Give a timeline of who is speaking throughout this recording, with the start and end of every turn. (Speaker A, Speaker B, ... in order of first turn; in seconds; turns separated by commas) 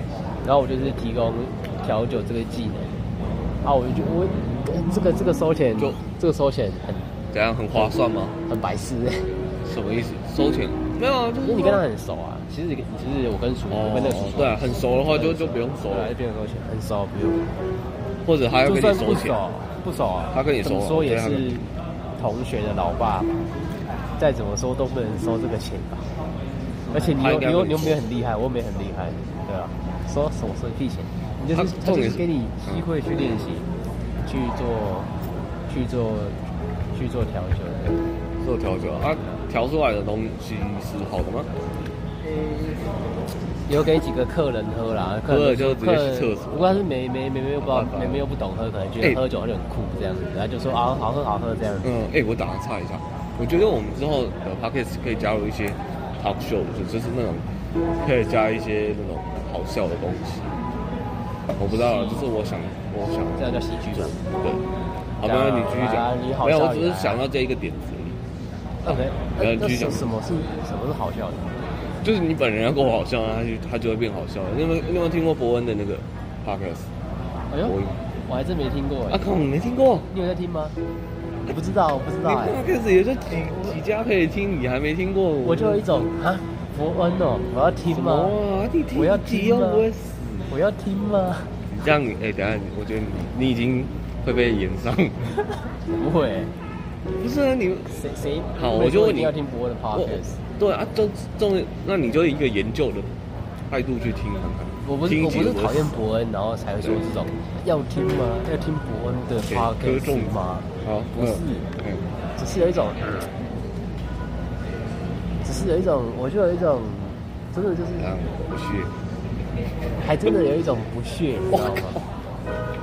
Speaker A: 0.4-2.9, Speaker A: 3.6-7.1, Speaker B: 7.3-8.4, Speaker A: 8.5-9.3, Speaker B: 9.6-11.8, Speaker A: 11.4-17.5, Speaker B: 13.7-16.1, Speaker B: 18.2-19.4, Speaker A: 18.6-21.6, Speaker B: 20.3-21.6, Speaker A: 22.2-23.3, Speaker A: 24.2-26.1, Speaker A: 26.9-33.7, Speaker B: 27.0-28.0, Speaker B: 31.5-32.8, Speaker A: 34.2-35.1, Speaker A: 35.7-36.4, Speaker A: 36.9-38.0, Speaker B: 38.4-41.5, Speaker A: 42.2-42.8, Speaker A: 43.7-51.9, Speaker B: 45.3-46.8, Speaker B: 47.6-48.2, Speaker B: 51.8-57.5, Speaker B: 58.0-60.5, Speaker B: 61.5-64.6, Speaker A: 61.7-62.2, Speaker A: 63.4-64.2, Speaker B: 65.2-68.2, Speaker A: 65.2-67.2, Speaker A: 68.8-71.5, Speaker B: 68.8-70.1, Speaker B: 72.0-76.9, Speaker A: 77.5-79.2, Speaker B: 77.7-78.0, Speaker B: 79.1-80.1, Speaker A: 80.1-80.7, Speaker A: 81.5-82.7, Speaker B: 82.2-85.8, Speaker A: 85.4-88.3, Speaker B: 87.9-90.5, Speaker A: 88.9-89.9, Speaker A: 90.5-91.5, Speaker B: 91.7-95.3, Speaker A: 95.9-96.5, Speaker B: 97.2-98.0, Speaker A: 97.9-100.4, Speaker B: 98.5-99.3, Speaker B: 99.9-106.0, Speaker A: 104.8-111.7, Speaker B: 109.4-112.1, Speaker A: 112.4-113.3, Speaker A: 115.4-118.1, Speaker B: 118.0-118.9, Speaker A: 120.0-122.0, Speaker B: 121.5-122.0